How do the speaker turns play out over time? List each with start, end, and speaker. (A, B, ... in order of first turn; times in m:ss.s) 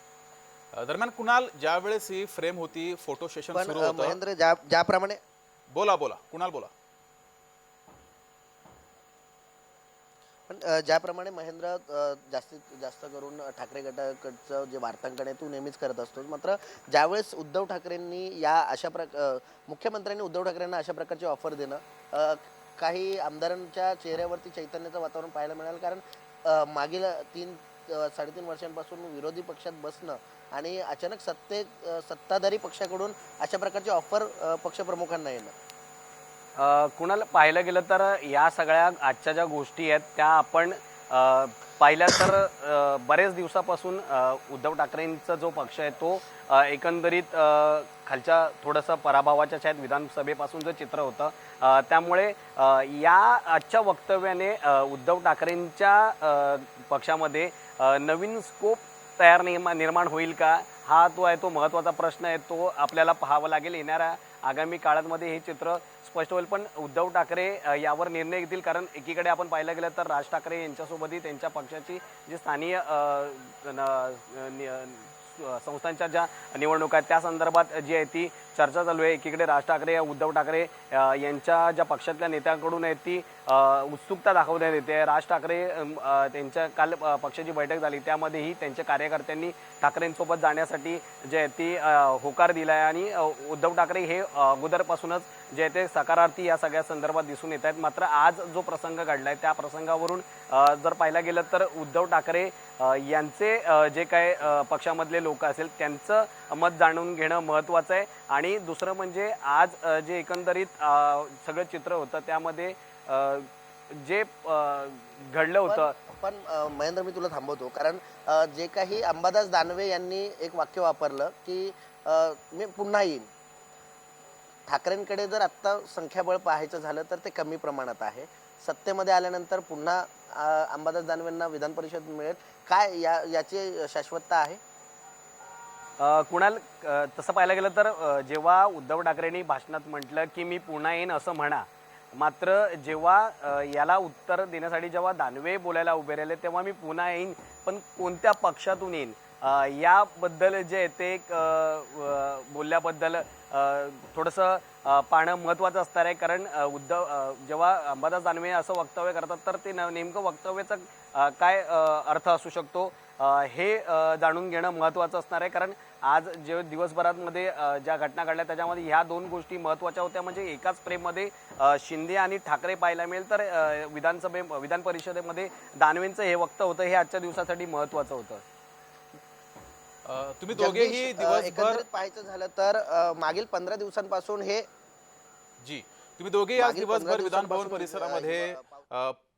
0:00.7-0:04.2 A
0:03.5-0:05.2 B
0:05.7-0:06.7 A
0:10.5-0:35.5 B
0:36.6-1:55.9 C
1:55.7-2:03.3 B
2:04.7-2:14.6 B
2:16.0-2:58.4 C
3:00.1-3:01.8 A
3:00.5-3:04.7 B
3:05.6-3:09.2 A
3:06.6-3:08.9 B